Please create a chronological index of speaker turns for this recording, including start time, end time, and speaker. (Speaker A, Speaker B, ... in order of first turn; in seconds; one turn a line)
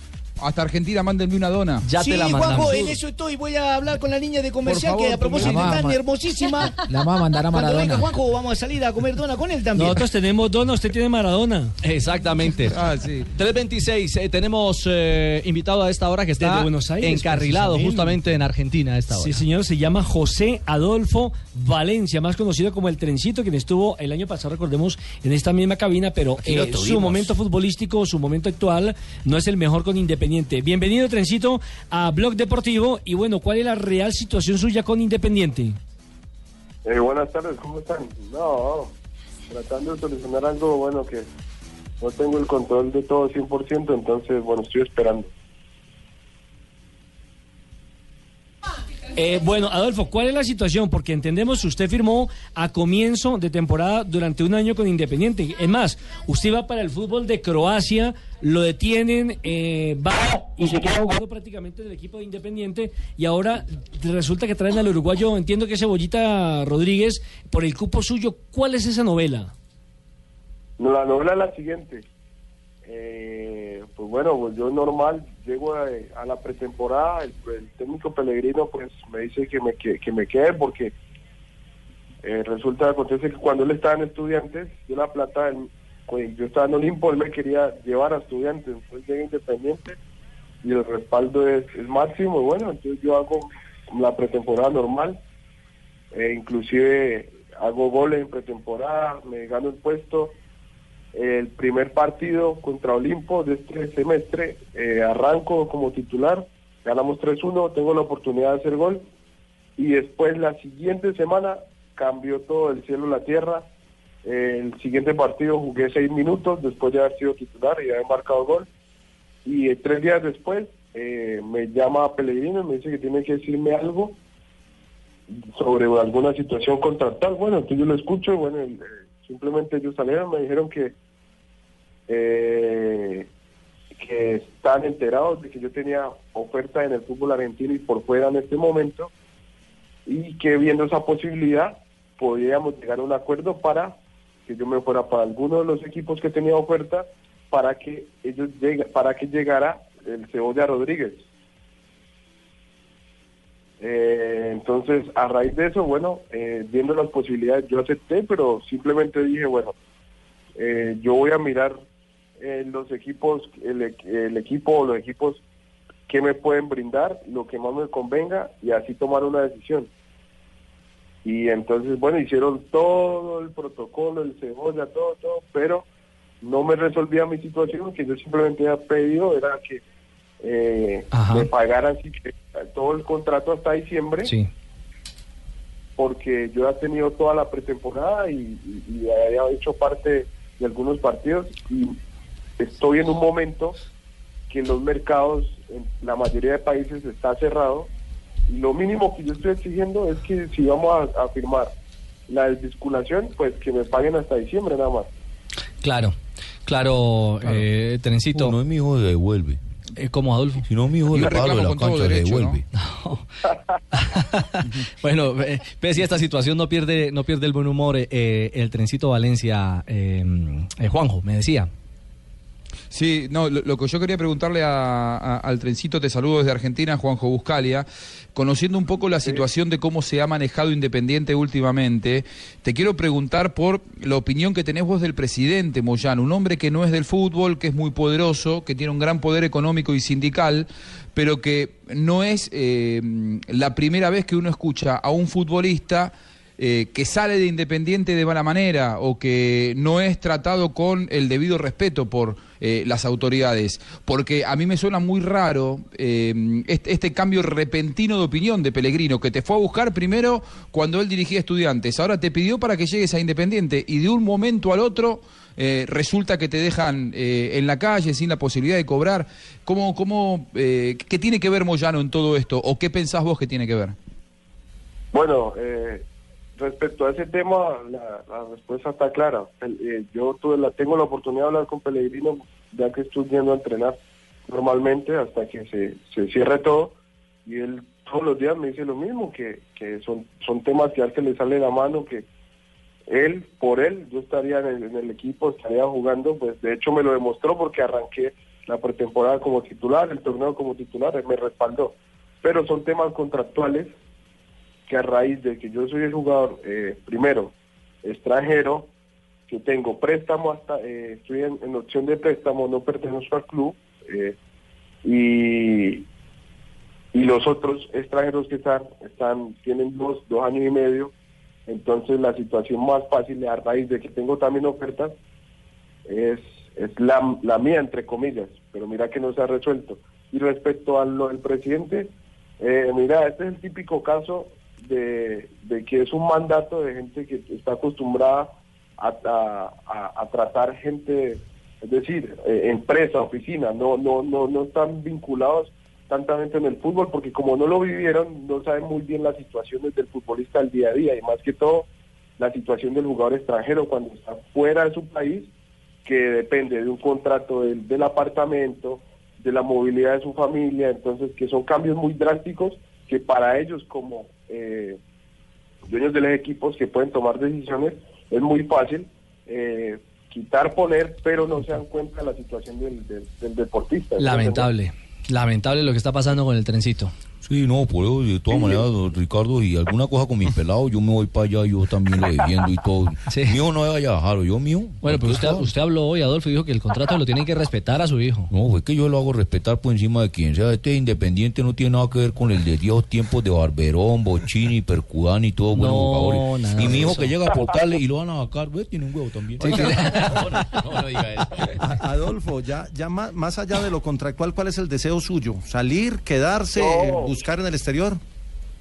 Speaker A: 0.4-1.9
Speaker B: 1.8-3.0
Speaker C: 2.0-6.8
Speaker A: 4.7-5.9
Speaker D: 5.4-6.0
Speaker D: 6.8-8.1
Speaker C: 7.5-10.1
Speaker E: 9.8-11.7
Speaker B: 11.8-12.8
Speaker A: 12.7-13.3
Speaker B: 13.3-19.4
Speaker E: 16.4-18.2
Speaker E: 19.1-35.8
Speaker C: 26.4-27.3
Speaker F: 36.9-38.9
Speaker F: 39.5-41.3
Speaker F: 42.0-45.3
Speaker E: 49.2-69.5
Speaker F: 70.8-72.1
Speaker F: 72.8-80.9
Speaker F: 82.2-90.0
Speaker F: 90.6-95.2
Speaker F: 96.1-100.4
Speaker F: 101.1-109.0
Speaker F: 109.8-113.7
Speaker F: 114.2-118.7
Speaker F: 119.5-124.2
Speaker F: 125.3-130.9
Speaker F: 132.1-133.3
Speaker F: 134.0-139.1
Speaker F: 140.1-151.2
Speaker F: 153.8-159.8
Speaker F: 160.6-161.8
Speaker F: 162.4-165.4
Speaker F: 166.1-169.9
Speaker F: 171.2-175.9
Speaker F: 176.4-179.8
Speaker F: 180.4-184.3
Speaker B: 181.1-181.5
Speaker F: 186.0-192.0
Speaker F: 192.6-193.8
Speaker F: 194.5-197.9
Speaker F: 198.5-201.7
Speaker F: 202.3-205.1
Speaker B: 205.8-208.6
Speaker G: 208.3-209.6
Speaker B: 210.0-210.6
Speaker G: 210.6-212.6
Speaker A: 211.1-212.6
Speaker B: 212.8-213.3
Speaker B: 213.9-221.7
Speaker A: 222.9-273.9
Speaker F: 275.1-276.1
Speaker F: 276.6-286.9
Speaker F: 287.5-292.3
Speaker F: 293.1-303.9
Speaker F: 304.9-308.9
Speaker F: 309.5-314.4
Speaker F: 315.0-316.1
Speaker F: 317.1-321.1
Speaker F: 321.7-325.2
Speaker F: 326.1-351.9
Speaker F: 352.4-355.5
Speaker F: 356.1-365.0
Speaker F: 365.9-374.7
Speaker B: 374.2-377.1
Speaker G: 377.4-385.7
Speaker F: 378.5-378.8
Speaker B: 383.3-383.6
Speaker B: 385.0-388.5
Speaker G: 388.5-400.1
Speaker B: 395.7-397.4
Speaker B: 399.6-400.4
Speaker H: 401.8-408.2
Speaker F: 406.8-407.3